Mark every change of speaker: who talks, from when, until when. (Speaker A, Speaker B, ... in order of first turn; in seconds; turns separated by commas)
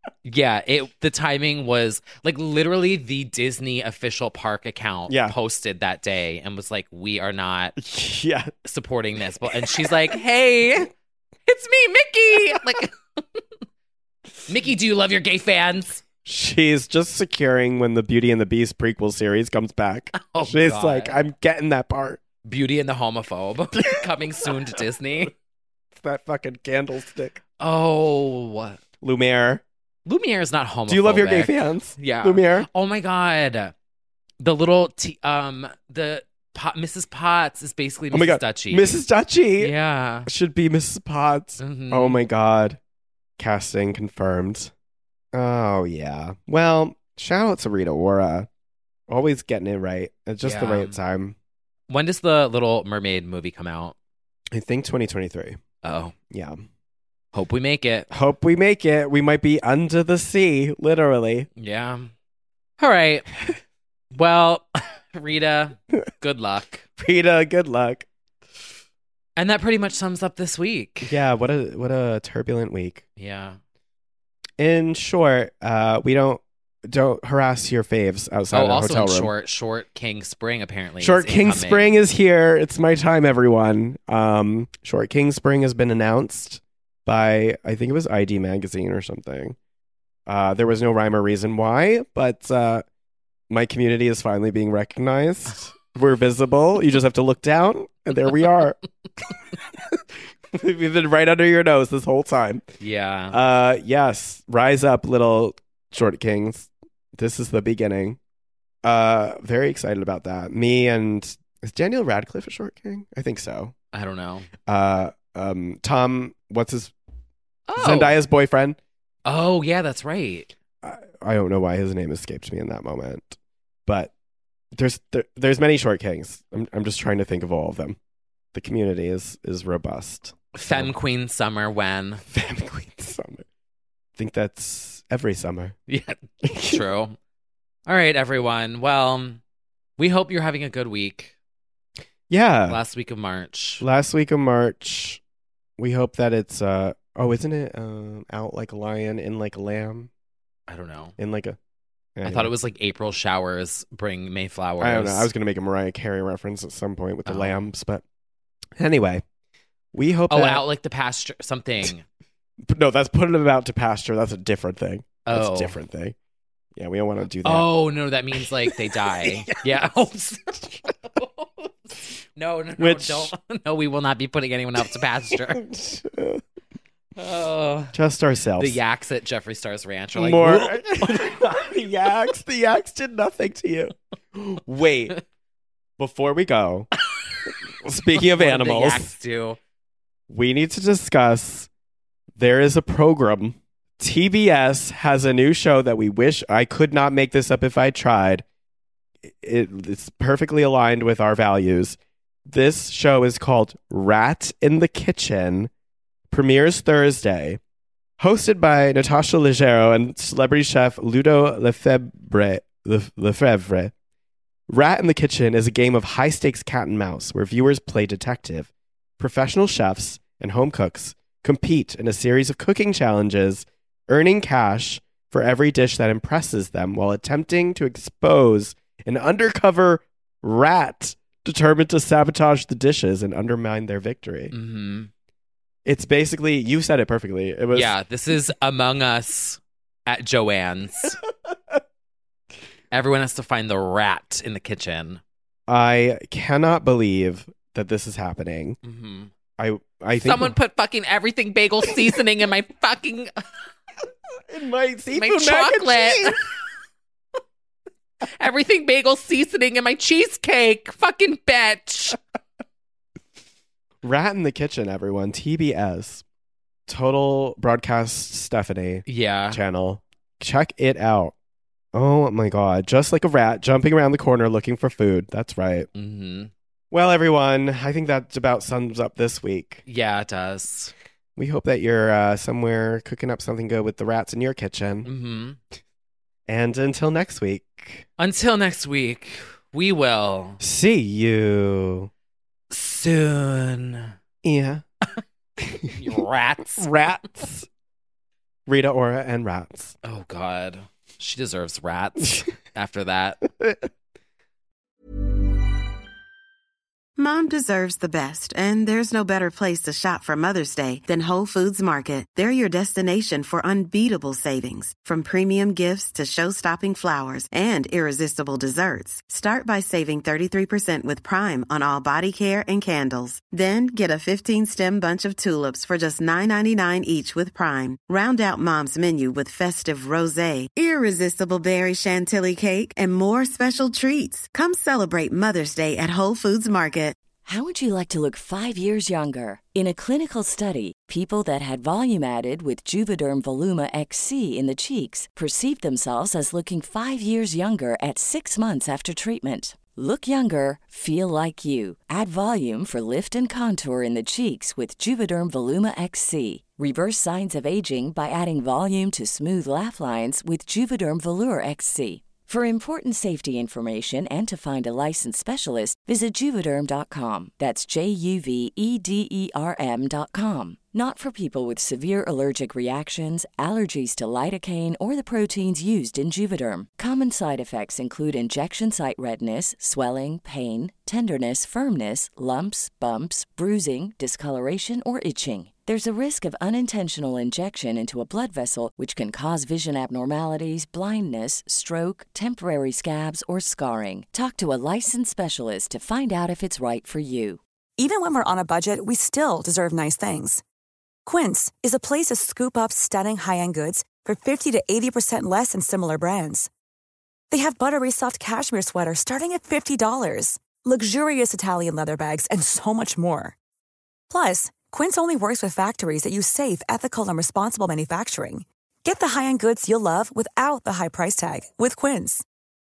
Speaker A: 0.2-7.8, Speaker B: 5.1-5.3, Speaker B: 7.8-8.5, Speaker A: 8.7-10.9, Speaker A: 11.5-12.9, Speaker A: 14.5-16.0, Speaker B: 16.2-22.2, Speaker A: 20.1-21.2, Speaker A: 22.4-25.3, Speaker B: 25.9-27.4, Speaker A: 27.6-28.8, Speaker B: 29.0-29.6, Speaker A: 30.1-33.7, Speaker B: 30.9-32.7, Speaker A: 34.4-39.0, Speaker B: 38.1-39.7, Speaker A: 39.6-40.3, Speaker B: 40.2-42.8, Speaker A: 41.6-42.2, Speaker B: 43.4-44.7, Speaker B: 45.3-48.5, Speaker B: 49.1-51.4, Speaker A: 50.4-51.0, Speaker A: 51.9-54.0, Speaker B: 54.5-55.6, Speaker A: 55.8-56.1, Speaker B: 56.3-56.6, Speaker A: 57.3-58.1, Speaker B: 58.1-61.5, Speaker A: 61.6-62.1, Speaker A: 62.8-63.3, Speaker A: 64.1-66.9, Speaker B: 67.0-68.1, Speaker A: 69.4-71.1, Speaker B: 71.0-73.0, Speaker A: 73.2-73.6, Speaker B: 74.6-79.3, Speaker A: 78.5-81.9, Speaker B: 81.0-89.6, Speaker B: 90.3-92.8, Speaker B: 93.5-98.8, Speaker B: 99.7-102.7, Speaker A: 102.8-103.4, Speaker B: 103.3-108.2, Speaker B: 108.8-113.8, Speaker A: 113.9-114.5, Speaker B: 114.7-116.9, Speaker A: 117.7-118.2, Speaker B: 117.8-118.8, Speaker A: 119.2-120.5, Speaker B: 120.8-124.1, Speaker B: 124.7-128.0, Speaker B: 128.5-130.9, Speaker A: 130.6-132.2, Speaker B: 132.3-133.5, Speaker B: 134.2-135.8, Speaker A: 135.9-137.2, Speaker B: 136.4-136.8, Speaker A: 137.9-139.4, Speaker A: 140.0-141.3, Speaker B: 142.3-142.8, Speaker A: 142.7-143.8, Speaker B: 143.8-145.2, Speaker B: 145.8-150.1, Speaker A: 150.7-151.2, Speaker B: 151.2-151.6, Speaker B: 152.2-152.5, Speaker A: 152.2-155.3, Speaker B: 154.8-158.0, Speaker A: 157.3-157.7, Speaker B: 158.8-159.2, Speaker B: 159.9-160.7, Speaker A: 160.3-162.0, Speaker B: 162.6-166.2, Speaker A: 165.2-165.8, Speaker B: 166.8-167.7, Speaker A: 167.4-175.6, Speaker B: 168.3-169.7, Speaker B: 172.8-173.3, Speaker B: 175.3-176.4, Speaker A: 177.2-177.9, Speaker B: 177.9-178.8, Speaker A: 178.6-181.4, Speaker B: 180.2-185.2, Speaker B: 186.0-186.9, Speaker B: 187.7-189.1, Speaker A: 188.1-189.6, Speaker B: 190.3-191.7, Speaker B: 192.4-198.4, Speaker B: 199.2-205.7, Speaker B: 206.3-207.6, Speaker B: 208.2-213.9, Speaker B: 214.7-234.5, Speaker A: 234.5-235.1, Speaker B: 235.8-237.9, Speaker A: 237.7-241.2, Speaker A: 242.9-245.2, Speaker B: 245.7-248.8, Speaker A: 248.8-249.3, Speaker B: 249.6-250.6, Speaker A: 250.2-253.4, Speaker B: 254.5-256.4, Speaker A: 255.1-256.4, Speaker A: 258.4-262.2, Speaker B: 264.0-266.2, Speaker B: 266.9-271.4, Speaker A: 269.1-269.6, Speaker B: 271.9-275.9, Speaker A: 275.9-276.5, Speaker B: 276.9-279.8, Speaker A: 279.9-280.9, Speaker B: 281.4-285.1, Speaker A: 285.1-285.6, Speaker B: 286.5-288.1, Speaker A: 288.2-290.6, Speaker B: 290.6-292.1, Speaker A: 292.7-294.1, Speaker B: 294.4-294.8, Speaker A: 295.9-296.9, Speaker B: 296.8-297.7, Speaker B: 298.7-300.0, Speaker A: 300.0-303.4, Speaker C: 307.2-337.2, Speaker D: 337.4-397.6, Speaker E: 398.0-400.6, Speaker E: 401.2-406.7, Speaker E: 407.5-413.6, Speaker E: 414.3-422.4